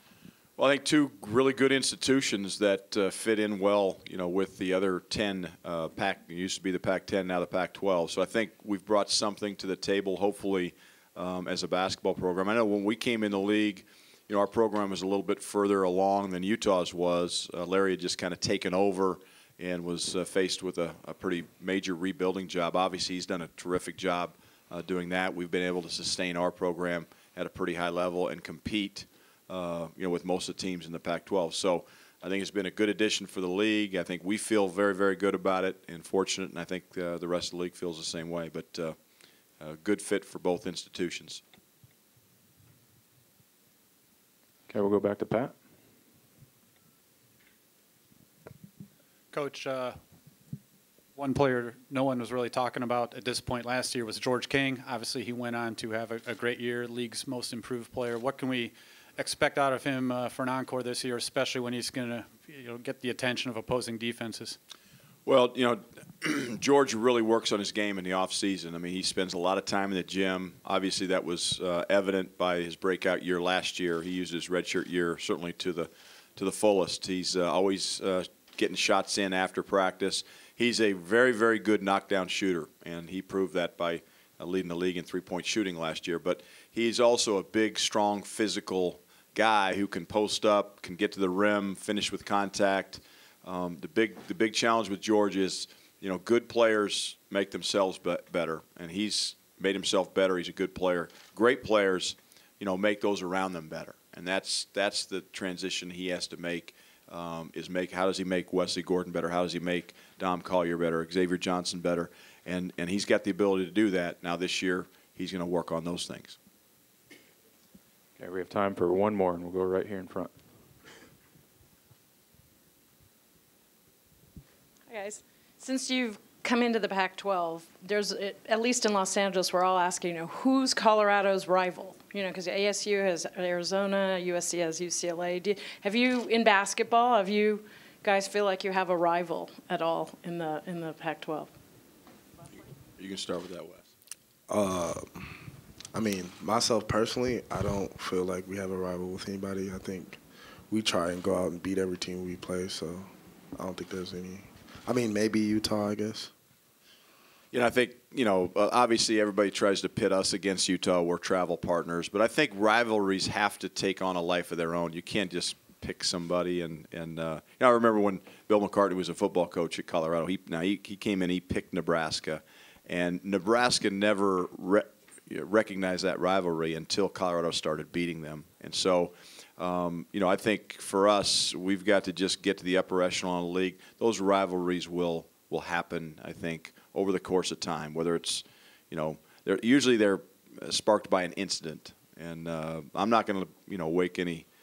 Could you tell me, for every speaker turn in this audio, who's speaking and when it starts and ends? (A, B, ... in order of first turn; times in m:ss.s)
0:00.6-0:39.0 A
0:39.6-0:41.4 A
0:44.7-0:45.6 B
0:49.3-0:50.0 C
0:51.2-1:04.6 C
1:05.3-1:56.4 A
1:58.2-2:00.3 B
2:04.9-2:21.5 D
2:22.5-2:23.9 A
2:24.5-2:25.4 E
2:25.9-2:30.2 E
2:30.7-2:36.3 E
2:37.5-3:14.5 A